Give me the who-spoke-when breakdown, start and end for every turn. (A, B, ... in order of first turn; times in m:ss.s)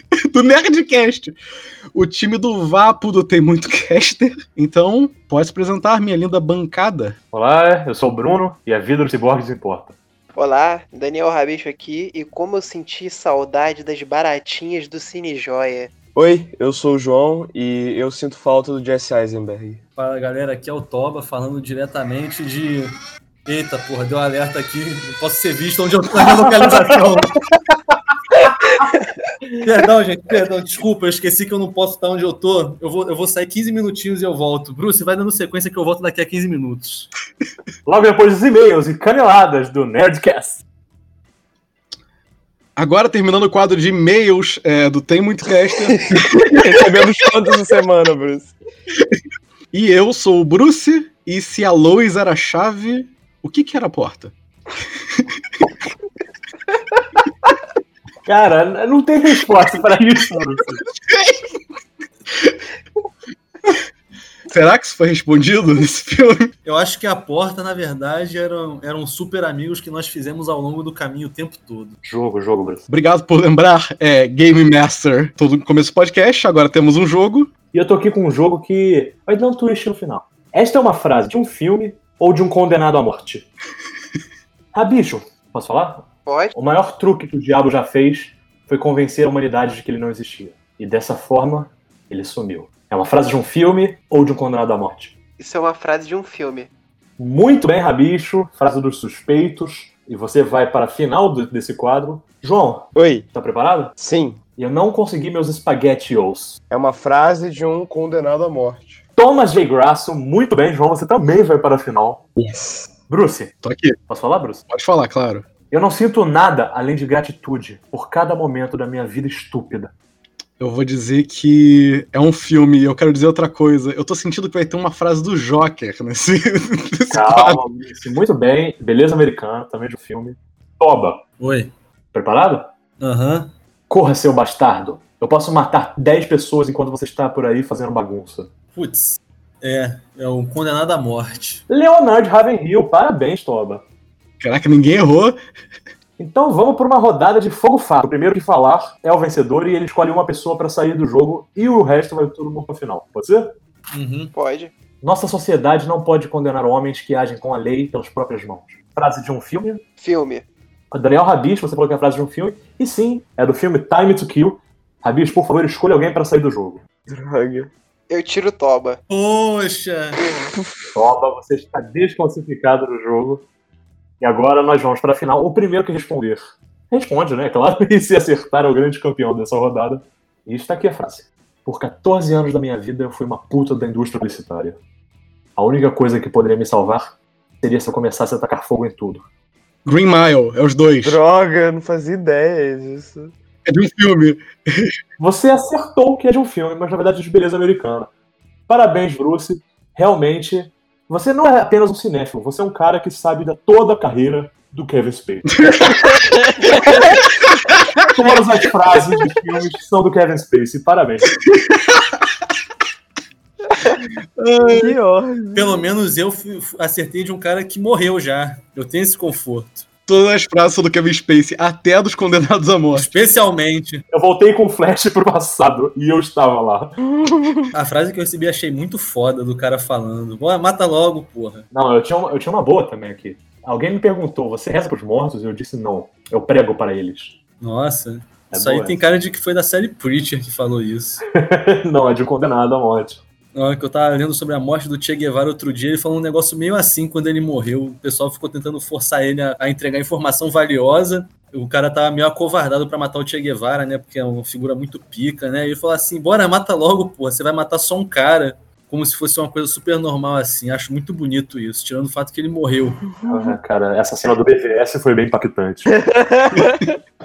0:00.1-0:01.4 A
0:01.9-0:07.2 A
0:07.3-0:10.0 B
0:10.4-0:15.9 C
0:16.2-0:19.8 D
0:20.0-0:22.9 E
0:23.5-0:27.3 E
0:26.2-0:26.7 B
0:29.6-0:37.1 E
0:37.9-0:40.6 B
0:42.8-0:46.7 A
0:46.0-0:48.6 D
0:49.7-0:54.3 A
0:55.1-0:55.4 A
0:58.2-1:00.9 B
1:01.0-1:01.4 A
1:02.3-1:02.6 A
1:04.5-1:06.5 A
1:06.6-1:12.0 E
1:12.0-1:12.9 B
1:12.9-1:17.5 A
1:17.7-1:23.5 B
1:24.7-1:35.1 B
1:26.3-1:26.5 C
1:35.4-1:36.7 C
1:37.2-1:44.0 B
1:43.0-1:43.3 D
1:44.0-1:44.4 D
1:44.6-1:46.6 B
1:46.7-1:49.0 D
1:49.2-1:52.3 B
1:52.4-1:52.9 D
1:53.1-1:53.5 B
1:53.6-1:54.0 A
1:54.1-1:54.7 B
1:54.7-1:55.5 A
1:55.7-1:59.9 B
2:00.6-2:07.6 A
2:07.1-2:11.2 B
2:11.4-2:11.7 E
2:12.1-2:12.7 B
2:13.0-2:13.5 E
2:13.9-2:18.5 B
2:18.8-2:21.6 E
2:21.7-2:23.8 B
2:24.4-2:25.4 A
2:26.2-2:33.6 B
2:33.9-2:34.3 E
2:34.3-2:34.7 C
2:35.0-2:39.8 B
2:40.0-2:40.4 C
2:40.9-2:46.9 B
2:47.1-2:47.7 D
2:48.1-2:49.0 C
2:49.1-2:50.2 E
2:50.9-2:53.4 B
2:54.2-3:04.8 B
3:05.6-3:09.3 B
3:09.8-3:11.2 A
3:11.0-3:13.3 D
3:13.7-3:15.0 A
3:15.2-3:18.1 B
3:18.7-3:26.0 B
3:25.6-3:26.2 A
3:25.9-3:27.2 D
3:26.7-3:27.2 B
3:28.0-3:31.4 B
3:31.7-3:32.0 A
3:34.4-3:35.0 A
3:34.7-3:35.9 D
3:35.6-3:39.9 E
3:40.1-3:43.1 A
3:42.9-3:44.0 E
3:44.1-3:47.0 B
3:47.0-3:47.7 D
3:47.7-3:51.7 E
3:51.7-3:57.4 B
3:57.6-4:01.2 E
3:58.5-3:59.0 B
4:01.4-4:03.2 B
4:03.6-4:23.0 E
4:23.1-4:23.6 D
4:23.3-4:25.9 B
4:25.9-4:27.0 D